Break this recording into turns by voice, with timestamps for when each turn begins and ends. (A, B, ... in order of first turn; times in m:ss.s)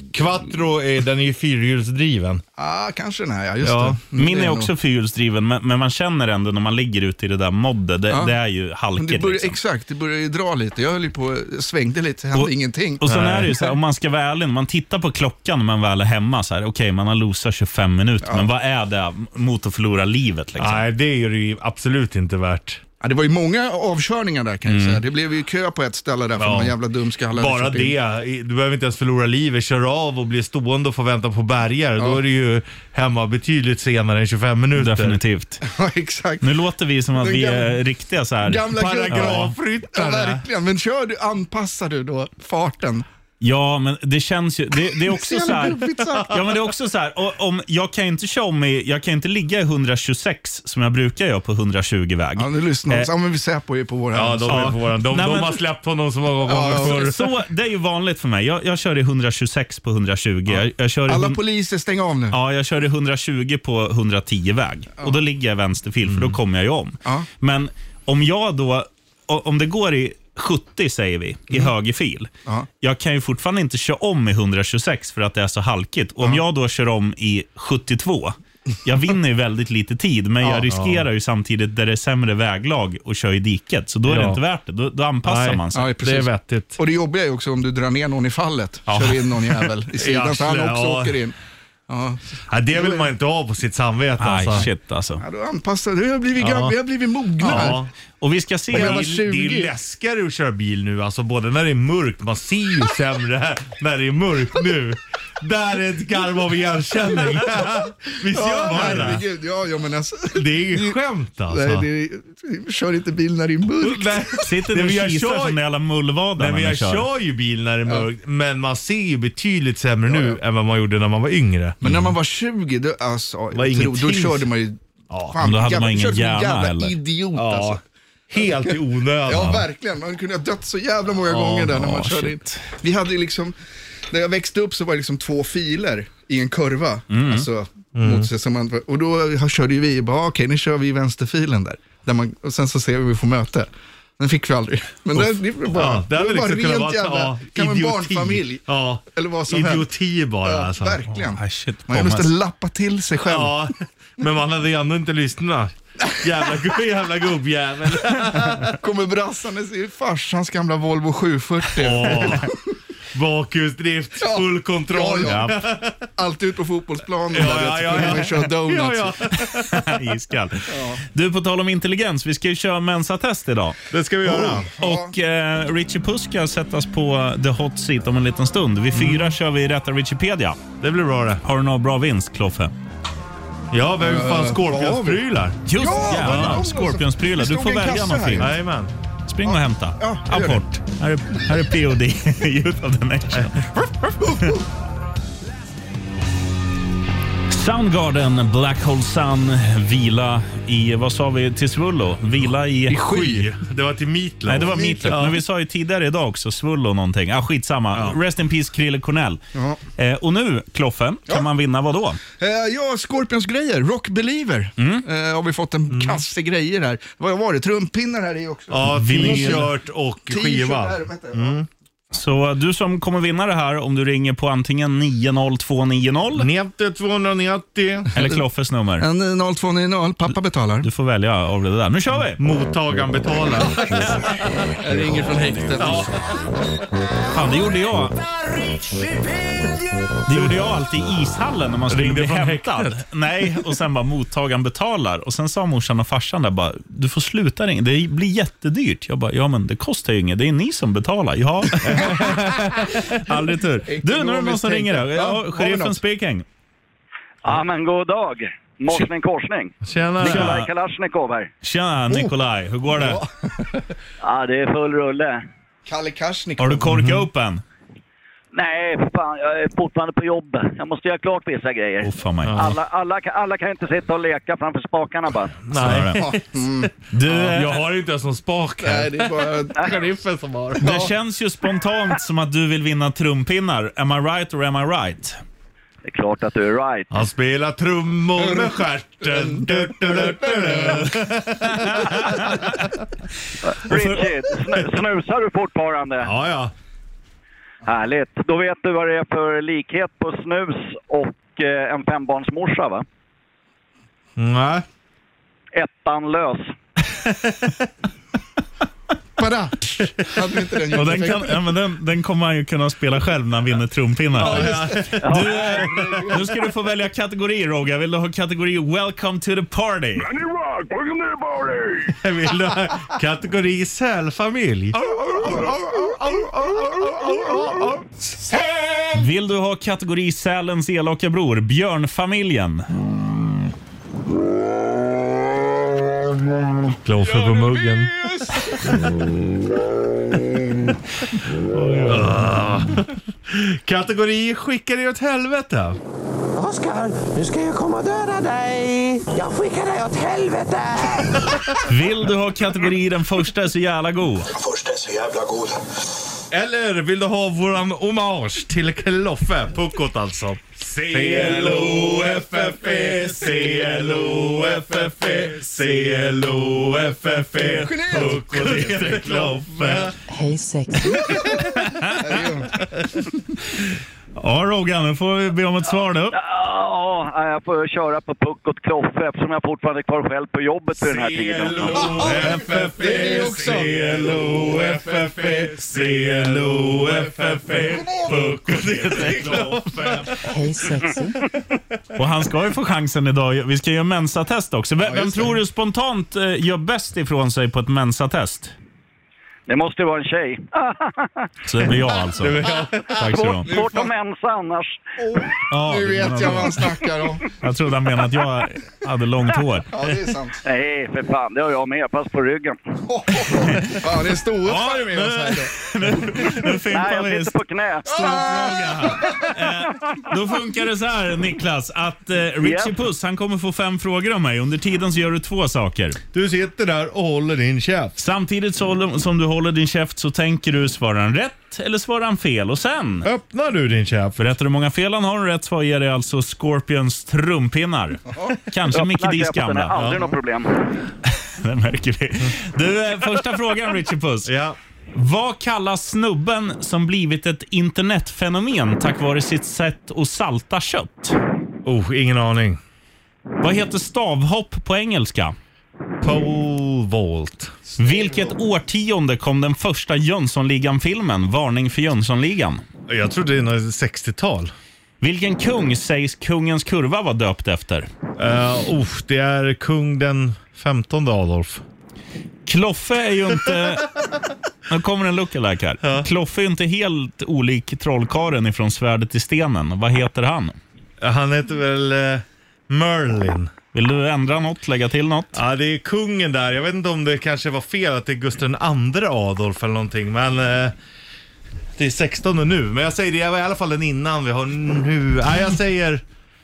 0:00.1-0:02.4 A
0:02.6-0:04.7 B
0:03.6-0:04.0 A
0:04.2-0:09.6 C
0:08.1-0:08.3 B
0:09.0-0:13.0 B
0:12.3-0:20.8 C
0:13.0-0:13.6 A
0:20.6-0:22.8 A
0:23.0-0:27.9 B
0:24.7-0:25.0 C
0:26.4-0:26.7 A
0:27.3-0:35.2 A
0:34.7-0:35.6 C
0:35.6-0:36.5 B
0:36.4-0:39.5 C
0:37.2-0:37.8 B
0:38.4-0:43.0 B
0:38.7-0:40.4 A
0:43.4-0:53.1 C
0:44.9-0:46.4 B
0:52.4-0:54.8 B
0:54.1-0:57.2 A
0:54.5-0:55.6 C
0:56.4-0:57.1 B
0:56.7-1:01.4 C
1:01.1-1:02.4 B
1:02.3-1:25.9 C
1:06.0-1:06.4 A
1:20.4-1:20.7 B
1:20.7-1:21.0 A
1:24.1-1:24.4 A
1:25.2-1:26.8 A
1:25.7-1:31.3 B
1:28.9-1:29.6 C
1:29.9-1:31.2 A
1:31.9-1:33.1 B
1:32.5-1:34.7 A
1:34.2-1:35.2 C
1:35.2-1:37.8 B
1:36.4-1:36.8 A
1:37.4-1:37.9 A
1:37.4-1:39.1 C
1:38.7-1:39.7 B
1:38.7-1:49.2 A
1:48.3-1:51.0 B
1:48.6-1:49.2 C
1:50.3-1:51.9 A
1:51.5-1:54.5 B
1:53.8-1:55.6 A
1:54.4-1:57.1 C
1:56.4-2:01.9 A
2:00.1-2:00.4 B
2:01.8-2:04.8 B
2:03.5-2:04.5 A
2:05.1-2:05.4 A
2:05.3-2:07.8 B
2:05.4-2:07.0 C
2:07.3-2:09.7 A
2:08.4-2:13.5 B
2:11.2-2:11.9 A
2:11.7-2:12.6 C
2:14.1-2:29.9 B
2:17.1-2:17.5 C
2:18.0-2:18.3 A
2:25.1-2:31.0 A
2:30.4-2:33.7 B
2:31.1-2:32.3 C
2:33.3-2:38.8 A
2:38.1-2:42.6 B
2:41.7-2:42.5 A
2:43.1-2:46.0 A
2:44.2-2:45.5 B
2:45.2-2:45.6 C
2:46.2-2:49.3 B
2:47.3-2:50.0 A
2:49.4-2:53.8 C
2:50.7-2:51.0 B
2:53.9-2:54.7 A
2:54.2-2:55.1 B
2:54.8-3:00.6 C
2:58.9-2:59.3 A
3:00.8-3:01.4 A
3:01.4-3:02.7 C
3:03.7-3:06.7 A
3:04.0-3:08.5 B
3:05.6-3:08.5 C
3:08.4-3:08.9 A
3:09.3-3:13.7 C
3:09.4-3:10.6 B
3:14.2-3:14.6 B
3:17.5-3:23.1 C
3:22.9-3:23.5 B
3:23.0-3:25.4 A
3:24.5-3:29.4 C
3:24.6-3:25.2 B
3:29.5-3:29.8 B
3:30.0-3:32.2 C
3:32.4-3:39.7 B
3:34.8-3:35.0 C
3:35.9-3:36.2 A
3:38.7-3:41.7 A
3:38.9-3:39.7 C
3:40.3-3:41.6 B
3:42.1-3:46.5 C
3:46.4-3:48.1 A
3:48.1-3:49.1 C
3:49.0-3:50.9 B
3:50.8-3:52.4 C
3:52.4-3:54.8 A
3:54.8-3:56.2 B
3:55.8-3:56.5 A
3:57.3-3:58.1 C
3:58.5-4:00.6 A
4:00.2-4:12.3 C
4:01.9-4:03.0 A
4:11.8-4:13.1 A
4:12.9-4:16.4 C
4:13.9-4:16.0 B
4:17.4-4:21.5 D
4:19.8-4:20.6 A
4:20.2-4:20.7 C
4:21.6-4:23.2 C
4:22.9-4:23.9 B
4:24.2-4:25.4 D
4:25.8-4:26.9 B
4:26.6-4:27.6 C
4:26.9-4:27.2 A
4:28.5-4:35.6 D
4:32.0-4:32.7 C
4:32.4-4:32.8 A
4:35.6-4:41.0 A
4:35.7-4:36.2 C
4:36.1-4:36.9 B
4:37.1-4:37.8 C
4:38.8-4:39.9 B
4:40.8-4:45.4 C
4:40.8-4:41.1 B
4:46.0-4:47.2 D
4:47.1-4:52.9 A
4:48.4-4:51.1 B
4:51.6-4:52.8 C
4:53.6-4:56.3 D
4:53.8-4:54.2 C
4:56.2-4:56.7 A
4:57.8-5:03.0 D
5:04.4-5:04.8 A
5:05.7-5:06.7 D
5:07.2-5:07.9 A
5:09.4-5:11.6 B
5:10.9-5:20.5 C
5:14.4-5:16.4 A
5:14.4-5:16.6 B
5:15.2-5:15.7 D
5:22.0-5:28.0 A
5:25.1-5:26.2 B
5:29.1-5:32.9 C
5:37.0-5:39.1 A
5:37.4-5:38.7 B
5:41.7-5:42.1 C
5:42.0-5:46.0 A
5:46.5-5:51.7 E
5:51.8-5:54.5 C
5:54.5-5:55.8 E
5:56.5-6:10.2 A
6:00.9-6:05.4 C
6:07.5-6:10.1 C
6:07.6-6:09.2 B
6:10.3-6:11.5 F
6:11.1-6:12.8 B
6:11.5-6:12.4 C
6:14.4-6:16.4 C
6:16.3-6:22.1 D
6:21.0-6:30.5 A
6:21.8-6:30.4 C
6:22.1-6:23.9 B
6:30.4-6:31.4 F
6:32.1-6:38.7 C
6:35.0-6:35.5 B
6:39.7-6:41.5 D
6:41.6-6:42.6 C
6:42.4-6:43.6 A
6:42.6-6:45.0 D
6:43.2-6:43.7 C
6:43.7-6:44.1 B
6:45.2-6:47.5 B
6:45.7-6:46.9 C
6:46.2-6:46.6 A
6:47.5-6:49.9 C
6:49.9-6:50.6 B
6:50.6-6:52.8 D
6:53.0-6:55.7 B
6:53.4-6:54.0 C
6:54.6-6:57.5 C
6:56.9-6:58.4 D
6:58.0-7:06.2 C
6:58.1-6:59.5 B
7:02.6-7:02.9 D
7:06.3-7:08.1 A
7:08.2-7:13.3 C
7:13.2-7:14.4 A
7:14.4-7:20.0 C
7:18.3-7:18.6 B
7:18.9-7:20.8 D
7:19.9-7:20.2 A
7:21.3-7:24.5 C
7:24.4-7:24.8 A
7:25.1-7:31.4 C
7:31.8-7:32.8 A
7:33.6-7:35.6 C
7:36.2-7:37.8 A
7:38.0-7:42.8 C
7:43.1-7:44.7 A
7:45.2-7:48.1 C
7:48.4-7:51.8 A
7:52.6-7:54.1 C
7:54.9-8:00.8 C
7:56.0-7:56.3 A
8:01.2-8:03.7 A
8:03.9-8:05.6 C
8:05.5-8:10.9 A
8:12.0-8:16.2 A